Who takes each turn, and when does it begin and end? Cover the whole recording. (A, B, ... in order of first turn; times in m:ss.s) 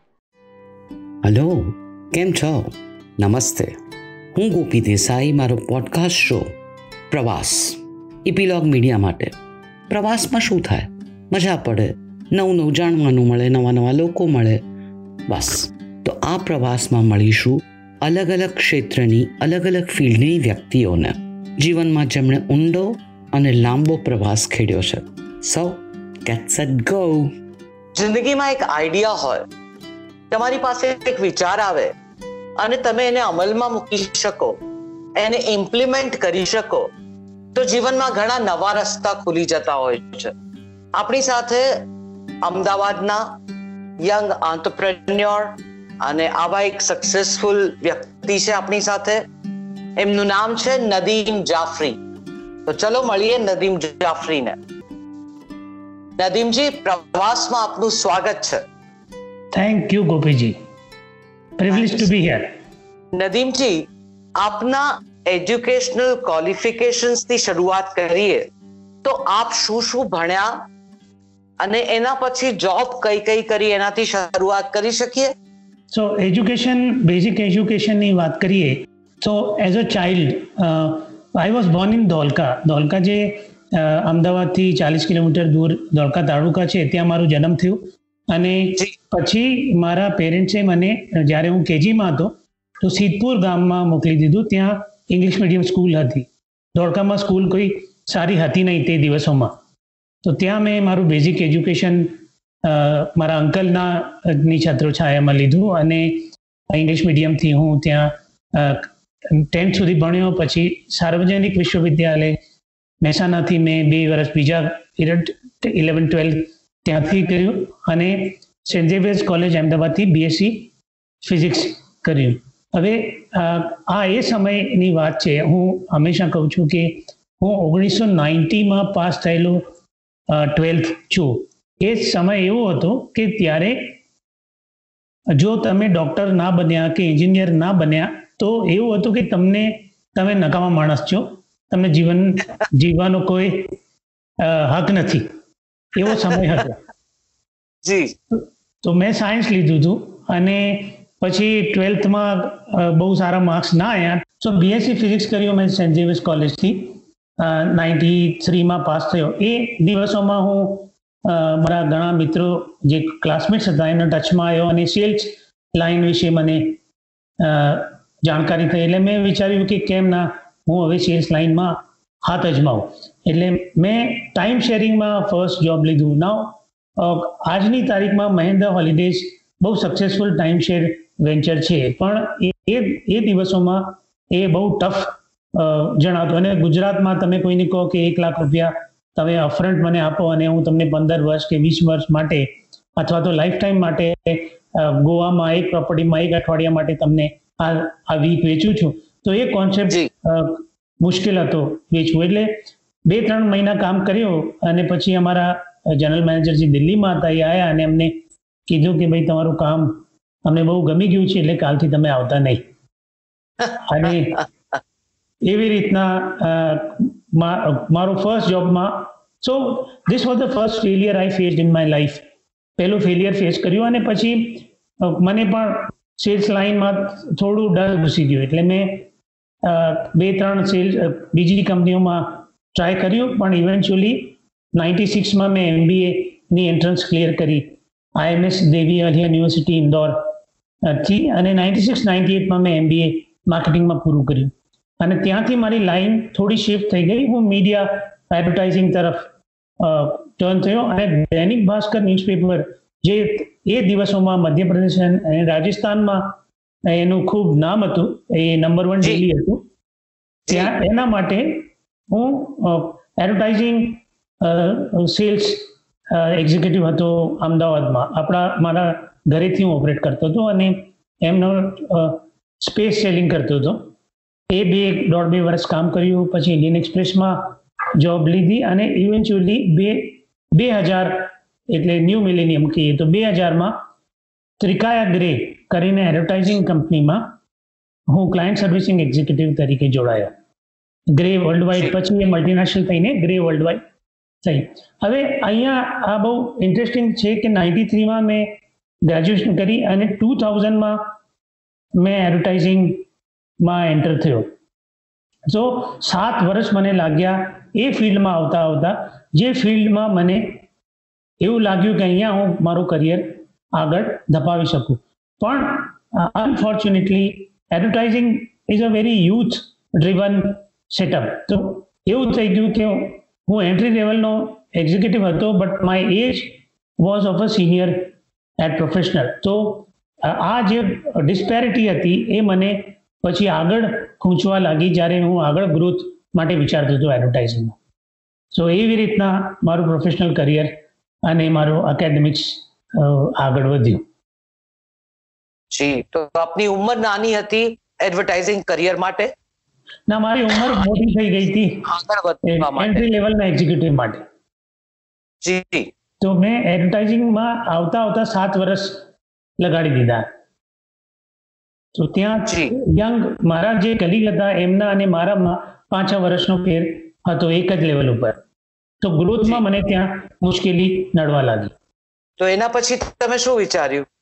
0:01.2-0:03.7 A
0:04.3-0:06.5 A
0:07.1-0:09.3 A
0:09.9-0:14.6 A
0:15.3-0:27.3 A
0:28.0-0:29.5 B
0:30.3-0:31.9 B
0:32.6-0:34.6 B
0:35.2-0:36.9 B
0:37.5-0:40.3 B
0:41.0-0:41.9 B
0:42.4-0:43.4 B
0:44.0-0:49.2 B
0:50.0-0:52.0 B
0:52.7-0:54.6 B
0:56.2-0:58.6 B
0:59.5-1:00.6 C
1:01.6-1:02.5 C
1:01.7-1:02.1 B
1:03.1-1:08.5 B
1:09.0-1:10.6 B
1:11.6-1:15.3 B
1:15.9-1:39.6 C
1:40.2-1:52.4 C
1:53.0-2:00.7 C
2:01.2-2:09.6 C
2:10.3-2:14.0 C
2:15.3-2:23.8 C
2:24.4-2:25.3 C
2:26.0-2:26.8 C
2:26.1-2:26.6 B
2:27.8-2:28.2 B
2:28.3-2:46.8 C
2:47.4-3:28.2 C
3:28.7-3:32.6 C
3:33.8-3:34.4 C
3:35.4-3:42.2 C
3:42.8-3:49.1 C
3:49.6-4:00.3 C
4:00.8-4:09.3 C
4:09.8-4:19.6 C
4:20.5-4:20.7 B
4:20.5-4:33.9 C
4:34.5-4:43.8 C
4:44.6-4:47.3 C
4:48.1-4:50.3 C
4:51.1-4:53.8 C
4:54.4-5:01.1 C
5:02.0-5:03.0 C
5:03.6-5:04.5 C
5:05.5-5:10.6 C
5:11.4-5:37.8 C
5:38.5-5:44.0 C
5:45.7-5:49.3 B
5:50.1-5:51.9 C
5:51.8-5:53.1 B
5:52.4-5:54.2 C
5:55.4-5:55.9 B
5:56.2-5:59.0 C
5:59.6-6:00.3 C
6:02.0-6:08.4 C
6:02.5-6:02.7 B
6:09.0-6:11.7 C
6:12.4-6:14.1 B